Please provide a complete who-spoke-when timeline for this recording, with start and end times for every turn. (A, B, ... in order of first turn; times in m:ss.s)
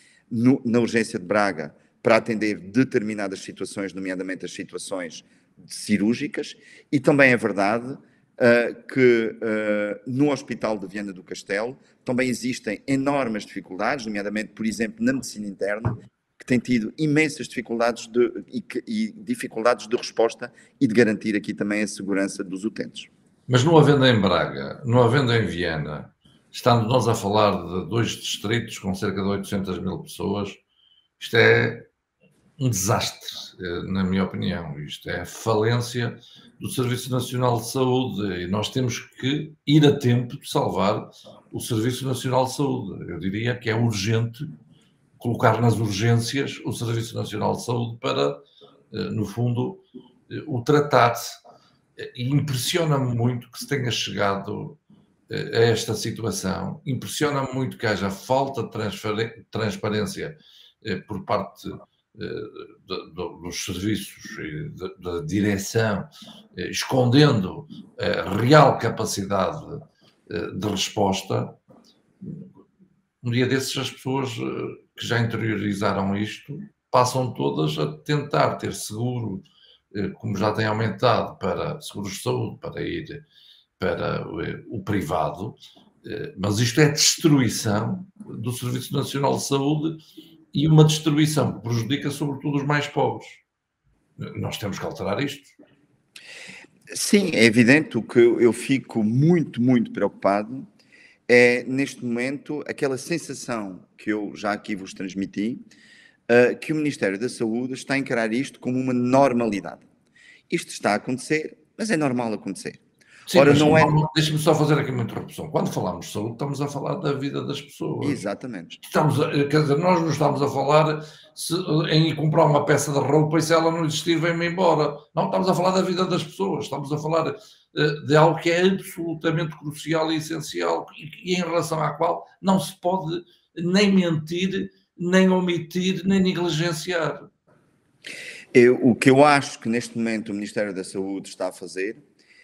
0:00.3-0:23.1 A
0:23.5-0:30.6 B
0:31.2-0:31.9 B
0:32.6-0:44.5 B
0:45.2-0:48.4 B
0:48.9-0:51.4 B
0:52.0-0:54.8 B
0:55.3-1:11.6 B
1:13.2-1:23.2 B
1:23.8-1:30.0 B
1:30.5-1:33.4 B
1:34.2-1:35.5 B
1:36.9-1:40.7 A
1:41.3-1:45.6 A
1:46.3-1:49.8 A
1:50.5-1:52.8 A
1:53.3-1:58.2 B
1:53.3-1:53.9 A
1:58.0-1:58.8 A
1:58.8-2:17.2 B
2:18.5-2:22.0 A